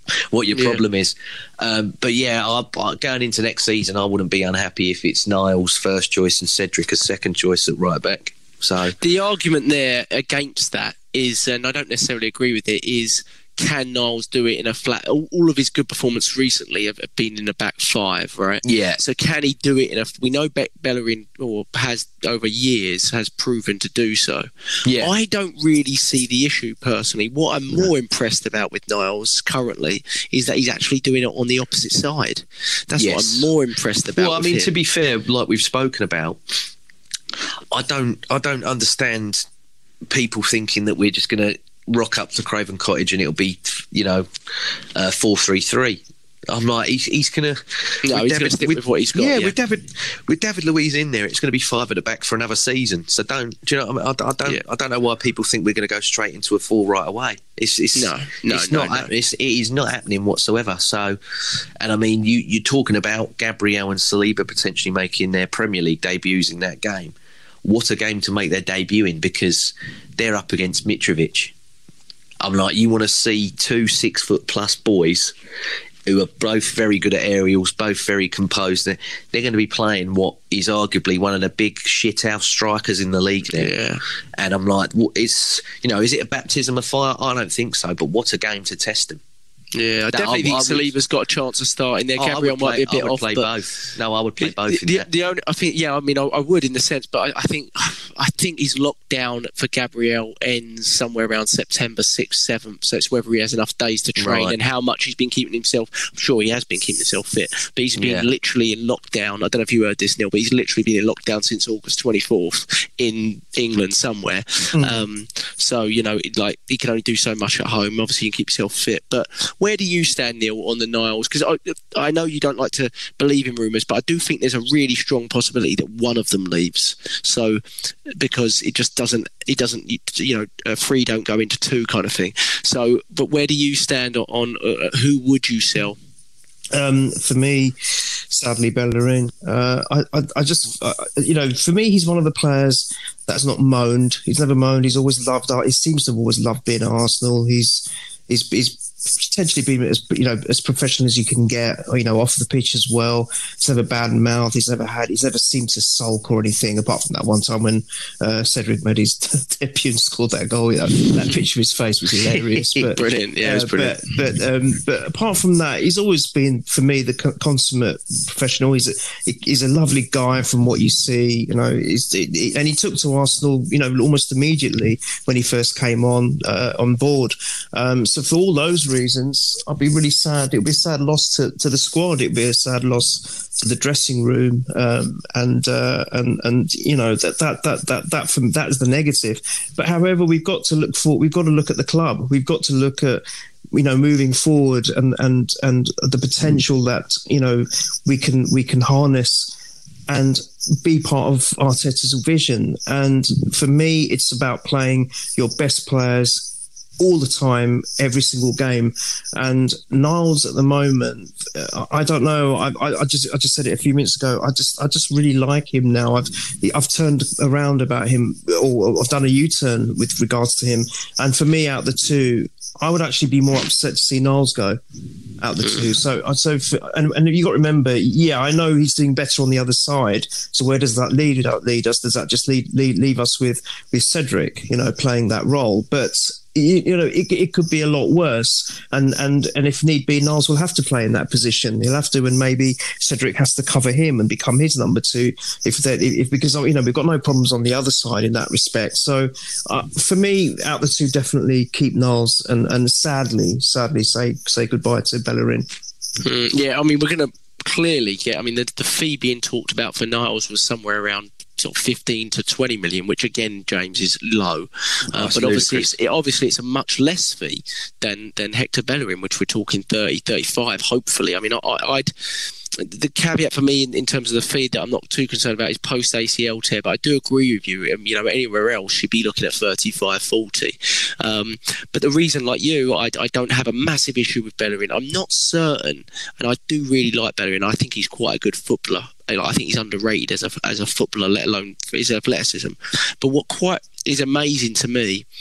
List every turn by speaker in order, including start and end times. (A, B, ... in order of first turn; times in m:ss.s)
0:00.3-0:09.0 A
0:00.5-0:00.8 B
0:09.0-0:24.5 B
0:18.6-0:19.0 A
0:24.9-0:25.1 A
0:25.0-0:34.7 B
0:33.0-0:33.5 A
0:34.2-0:36.4 A
0:37.7-0:39.5 A
0:40.1-0:44.3 A
0:45.0-1:01.2 A
0:48.0-0:49.5 B
0:58.0-0:59.1 B
1:01.8-1:11.5 A
1:12.4-1:15.3 A
1:16.1-1:23.7 A
1:23.5-1:24.0 B
1:24.4-1:29.2 A
1:29.8-1:33.5 B
1:30.1-1:30.9 A
1:32.2-1:35.1 A
1:34.4-2:16.0 B
1:44.2-1:44.6 A
1:48.0-1:48.3 A
1:54.7-1:55.0 C
2:16.7-3:19.6 C
2:42.4-2:44.0 B
3:20.1-3:44.8 C
3:45.4-4:15.7 C
3:45.6-3:45.9 B
4:16.2-4:32.1 B
4:25.1-4:25.9 A
4:32.7-4:55.3 B